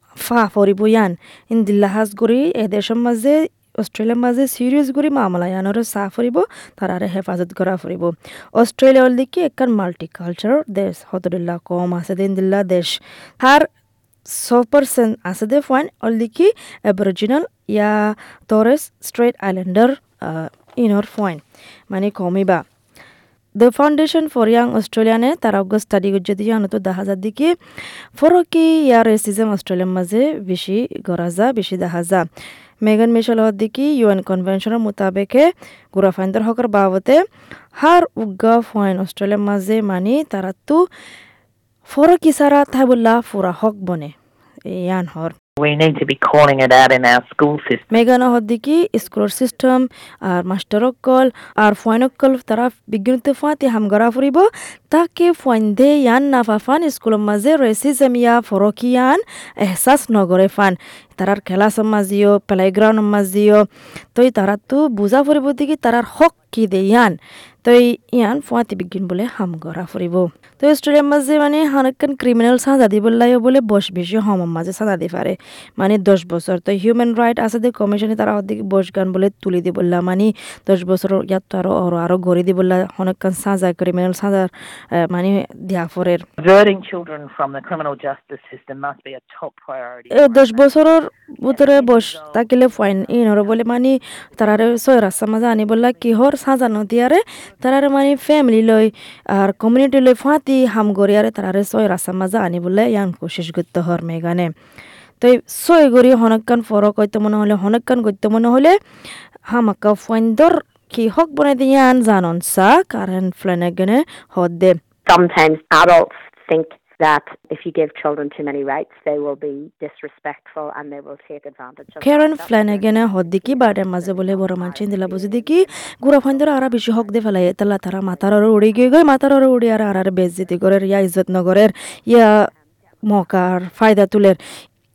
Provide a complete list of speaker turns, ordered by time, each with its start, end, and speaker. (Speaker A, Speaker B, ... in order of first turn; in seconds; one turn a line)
Speaker A: 0.2-13.7
Speaker A: 14.2-22.7
Speaker A: 23.6-27.6
Speaker A: 28.2-32.3
Speaker A: 32.8-37.2
Speaker A: 37.8-40.8
Speaker A: 41.9-44.1
Speaker A: 44.7-45.3
Speaker B: 45.6-47.9
Speaker A: 47.9-86.2
Speaker B: 86.4-90.8
Speaker A: 90.1-104.5
Speaker B: 91.5-92.5
Speaker B: 93.1-93.4
Speaker A: 105.2-108.8
Speaker A: 109.5-114.8
Speaker C: 115.1-127.4
Speaker A: 122.0-132.5
Speaker C: 128.0-128.4
Speaker A: 133.1-134.4